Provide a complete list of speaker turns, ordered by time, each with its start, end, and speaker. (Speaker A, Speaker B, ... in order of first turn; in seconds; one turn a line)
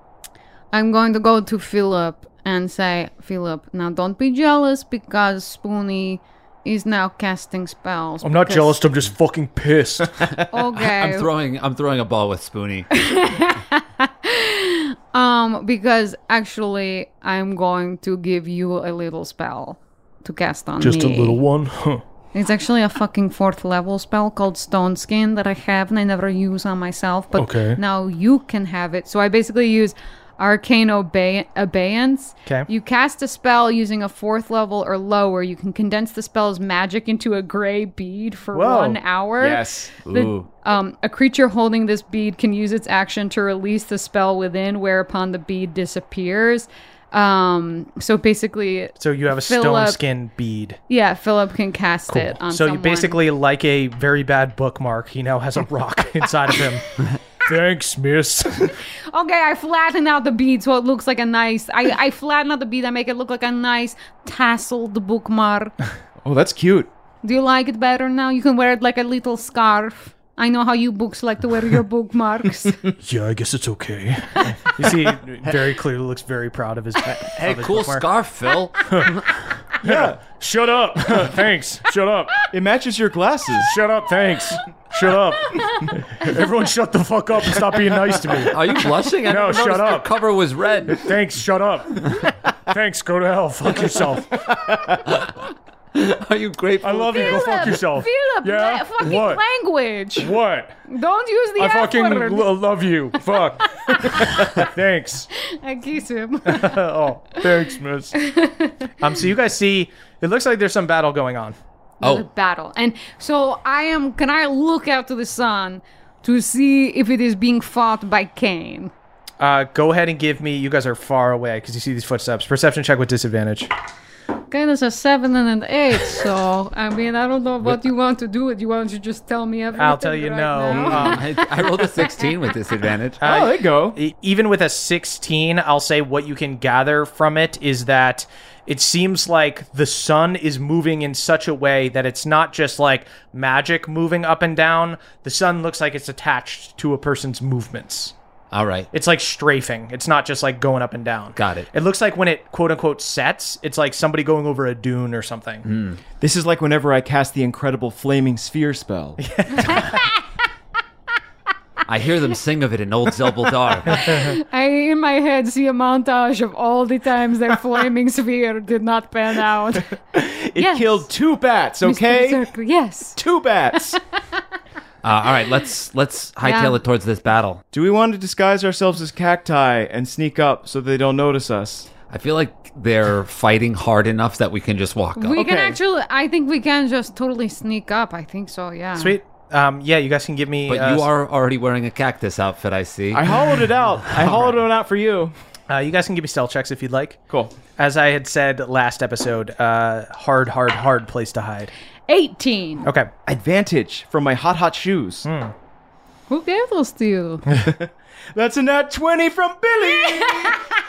Speaker A: 0.7-8.8
Speaker B: 8.2-10.4
Speaker A: 10.5-11.3
Speaker C: 10.8-12.9
Speaker A: 12.9-21.4
Speaker B: 20.8-22.0
Speaker A: 22.3-50.0
Speaker B: 27.3-27.8
Speaker B: 38.5-39.0
Speaker D: 39.4-40.0
Speaker C: 40.0-40.5
Speaker B: 49.0-50.8
Speaker A: 50.9-53.2
Speaker B: 52.1-58.8
Speaker A: 59.1-65.7
Speaker D: 66.2-66.9
Speaker A: 67.2-72.8
Speaker B: 73.0-78.0
Speaker C: 77.3-79.4
Speaker B: 78.9-79.2
Speaker D: 79.8-80.2
Speaker B: 79.8-82.5
Speaker D: 82.5-83.7
Speaker B: 83.6-88.6
Speaker C: 88.4-91.1
Speaker B: 89.2-90.1
Speaker B: 90.9-94.6
Speaker C: 95.0-95.4
Speaker C: 95.9-97.8
Speaker B: 96.8-99.4
Speaker A: 97.1-100.3
Speaker B: 100.2-100.7
Speaker A: 100.9-102.5
Speaker B: 101.6-105.3
Speaker A: 103.8-104.5
Speaker A: 105.3-106.8
Speaker B: 106.5-108.2
Speaker A: 108.1-108.9
Speaker B: 109.0-111.5
Speaker A: 112.0-118.9
Speaker B: 119.4-123.7
Speaker A: 124.5-132.3
Speaker B: 129.8-131.2
Speaker D: 130.7-131.2
Speaker C: 131.0-133.2
Speaker B: 133.2-148.1
Speaker D: 133.2-134.0
Speaker C: 148.5-148.9
Speaker B: 148.9-155.7
Speaker C: 151.3-151.7
Speaker C: 155.7-156.0
Speaker D: 156.2-159.2
Speaker B: 159.2-160.0
Speaker A: 159.7-160.1
Speaker C: 161.8-164.1
Speaker A: 163.9-169.9
Speaker D: 170.1-172.4
Speaker A: 170.6-171.1
Speaker A: 171.8-173.2
Speaker D: 173.2-174.0
Speaker C: 175.0-177.6
Speaker A: 176.4-176.8
Speaker D: 177.7-181.9
Speaker C: 182.1-185.4
Speaker A: 185.2-189.2
Speaker D: 185.3-185.8
Speaker B: 189.0-191.1
Speaker C: 190.7-193.4
Speaker D: 193.1-195.3
Speaker B: 195.7-201.7
Speaker D: 197.3-197.6
Speaker A: 202.1-202.8
Speaker B: 202.8-203.1
Speaker D: 203.2-205.3
Speaker B: 205.2-205.5
Speaker A: 206.3-207.4
Speaker D: 207.6-210.6
Speaker A: 210.0-210.6